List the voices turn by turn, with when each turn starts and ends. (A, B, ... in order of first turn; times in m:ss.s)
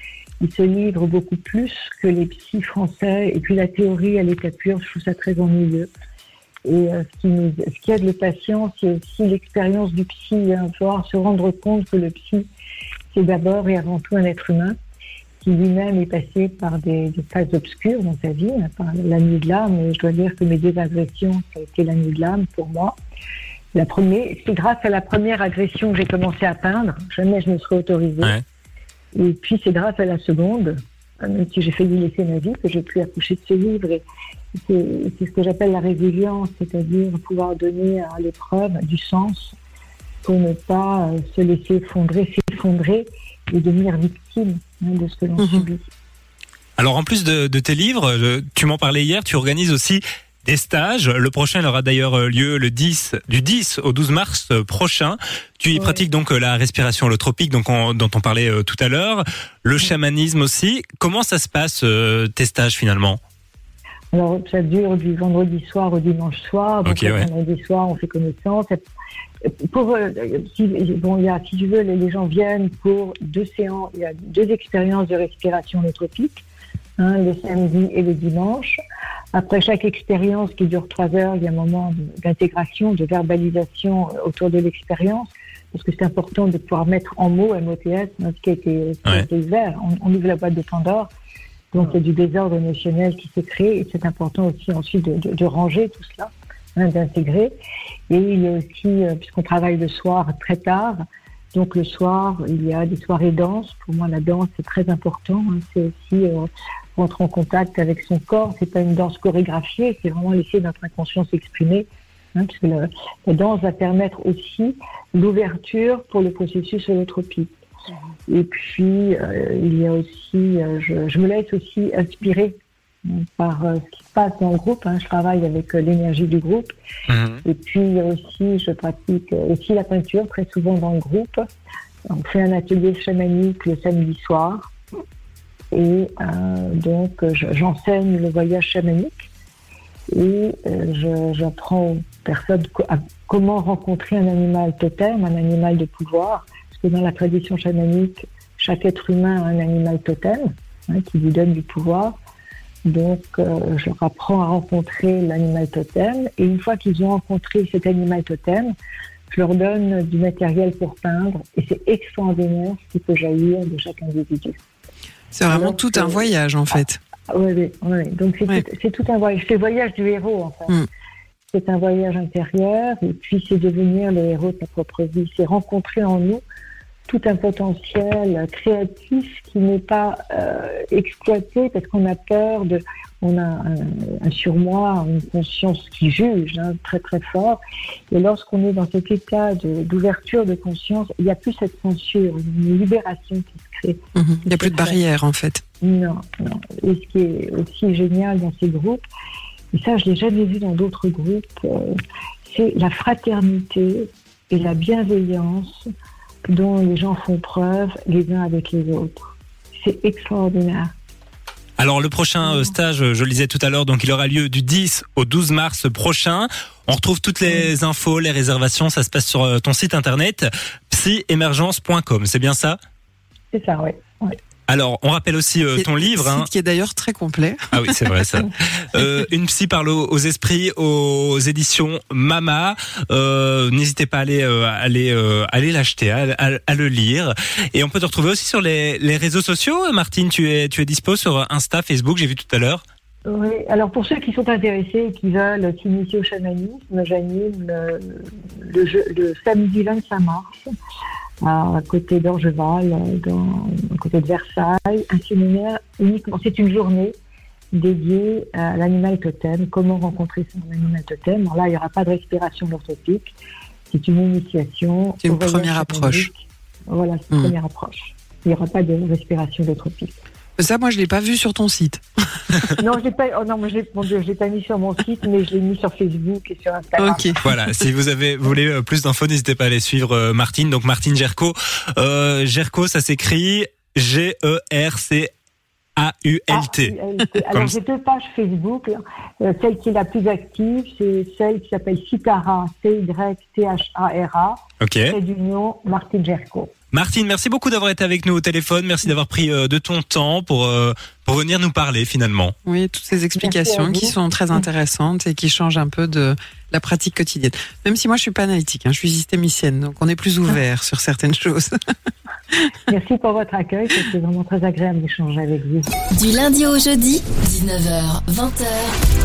0:00.4-0:05.9 A
0:06.6-0:12.5 A
0:13.1-0:14.8 A
0:15.4-0:23.0 A
0:23.7-0:28.3 A
0:29.1-0:34.0 A
0:34.6-0:39.6 A
0:40.2-0:45.9 A
0:45.4-0:45.7 B
0:46.8-1:03.2 C
1:04.1-1:08.8 A
1:06.8-1:07.3 C
1:09.5-1:16.4 A
1:17.0-1:18.8 A
1:19.3-1:31.1 A
1:31.7-1:37.6 A
1:38.1-1:41.0 A
1:41.5-1:57.5 A
1:58.3-2:06.7 A
2:07.1-2:07.4 C
2:07.4-2:11.4 A
2:12.1-2:14.7 A
2:15.7-2:19.3 A
2:20.1-2:32.2 A
2:32.8-2:38.7 A
2:39.3-2:44.6 A
2:45.3-2:47.0 B
2:45.5-2:46.3 A
2:47.3-2:50.8 A
2:51.5-2:56.4 A
2:57.1-3:07.6 A
3:08.1-3:15.0 A
3:14.2-3:15.6 B
3:15.8-3:19.0 A
3:19.7-3:25.9 A
3:26.5-3:30.9 A
3:31.8-3:42.8 C
3:43.5-3:44.4 A
3:44.7-3:46.5 C
3:45.8-3:48.4 B
3:47.7-4:02.8 C
4:03.2-4:10.7 A
4:11.4-4:17.2 A
4:17.7-4:23.4 A
4:23.9-4:30.2 A
4:25.2-4:26.3 B
4:30.6-4:32.7 B
4:32.8-4:37.3 A
4:37.0-4:37.8 B
4:37.4-4:45.3 C
4:46.0-4:46.9 C
4:46.5-4:56.7 A
4:54.8-4:55.1 C
4:56.9-5:02.5 C
5:02.6-5:11.7 B
5:03.4-5:04.2 A
5:12.9-5:15.9 A
5:16.1-5:19.0 D